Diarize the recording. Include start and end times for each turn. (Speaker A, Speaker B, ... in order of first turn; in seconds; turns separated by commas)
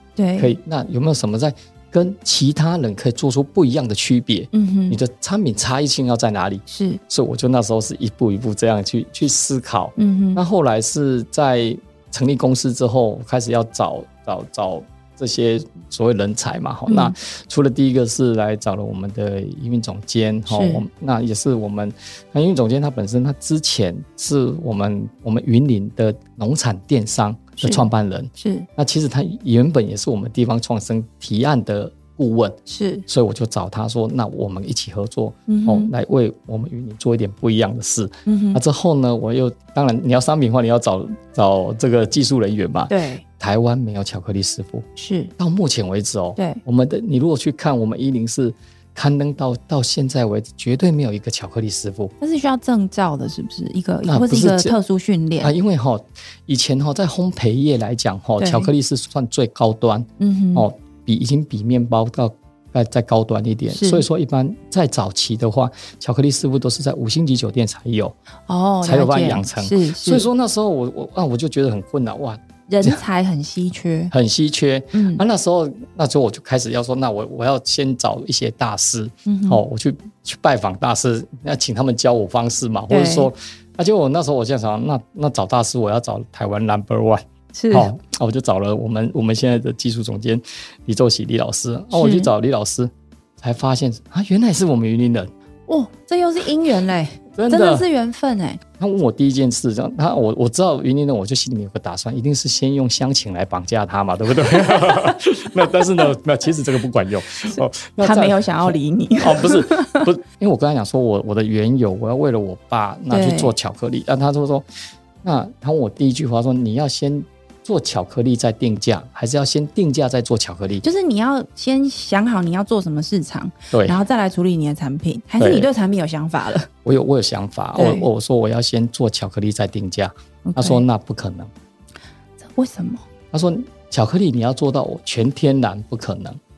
Speaker A: 0.1-0.5, Speaker B: 0.4-44.9, Speaker A: 4.5-5.0, Speaker A: 6.7-7.0, Speaker A: 10.0-10.4, Speaker A: 16.9-17.1, Speaker A: 20.5-20.8, Speaker A: 28.4-28.7, Speaker A: 32.7-33.0, Speaker A: 35.5-35.9, Speaker A: 38.3-38.6, Speaker A: 42.9-43.2, Speaker A: 45.0-45.3, Speaker B: 45.4-52.1, Speaker A: 46.4-46.6, Speaker A: 52.2-55.5, Speaker B: 54.1-54.8, Speaker B: 55.4-68.2, Speaker A: 58.4-58.7, Speaker A: 60.2-60.7, Speaker A: 63.7-64.0, Speaker A: 68.5-70.3, Speaker B: 68.8-73.0, Speaker A: 72.7-74.1, Speaker B: 74.1-95.3, Speaker A: 74.9-75.2, Speaker A: 79.3-79.6, Speaker A: 82.9-83.3, Speaker A: 87.5-87.9, Speaker A: 91.9-92.3, Speaker A: 95.7-98.6, Speaker B: 97.3-97.9, Speaker B: 98.8-114.7, Speaker A: 104.7-105.0, Speaker A: 108.0-110.1, Speaker A: 113.1-113.5, Speaker B: 115.2-120.8, Speaker A: 120.8-126.7, Speaker B: 123.7-124.0, Speaker B: 125.4-125.7, Speaker B: 126.8-131.5, Speaker A: 127.8-128.1, Speaker A: 130.4-130.8, Speaker A: 132.4-133.0, Speaker B: 133.3-136.4